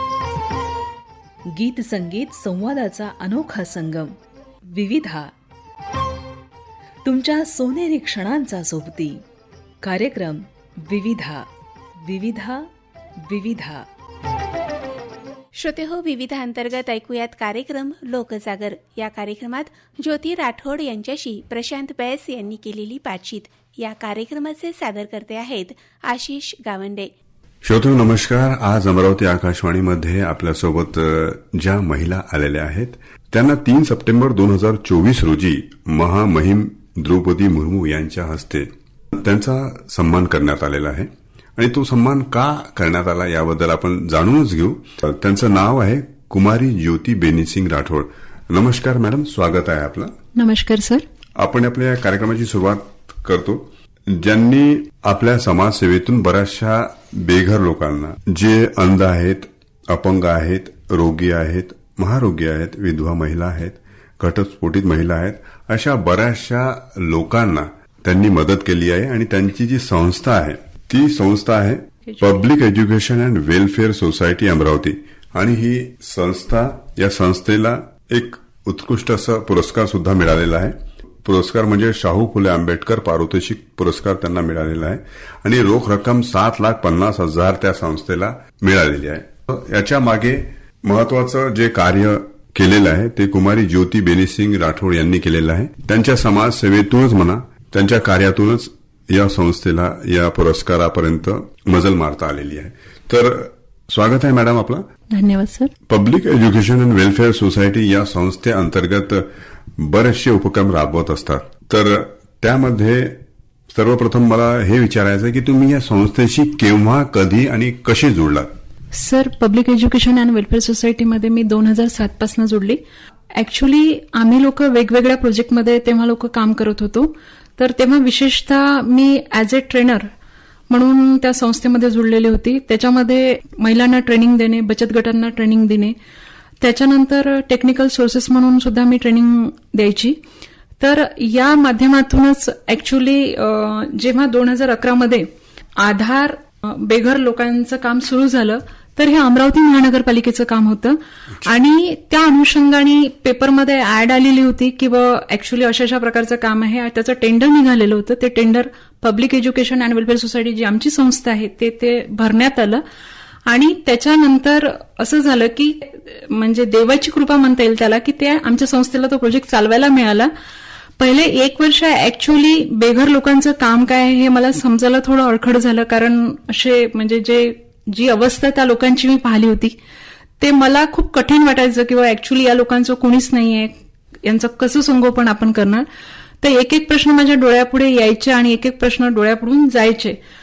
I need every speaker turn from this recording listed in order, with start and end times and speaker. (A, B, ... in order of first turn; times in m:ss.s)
0:01.5-0:04.2 A
0:04.7-0:05.3 A
0:07.0-0:09.2 A
0:09.8-0:11.5 A
0:12.0-0:12.7 A
0:13.2-0:13.8 A
0:15.6-0:27.1 B
0:27.6-0:50.1 C
0:50.3-0:51.0 D
0:51.4-1:44.8 C
1:45.1-1:45.7 D
1:45.9-1:53.2 C
1:53.7-1:58.5 C
1:58.9-2:02.8 D
2:03.3-2:10.1 D
2:10.7-2:15.9 D
2:16.6-2:20.2 D
2:20.8-2:25.3 D
2:25.8-2:42.8 D
2:43.5-2:50.3 D
2:51.0-2:59.8 D
3:00.4-3:05.8 D
3:06.4-3:10.2 D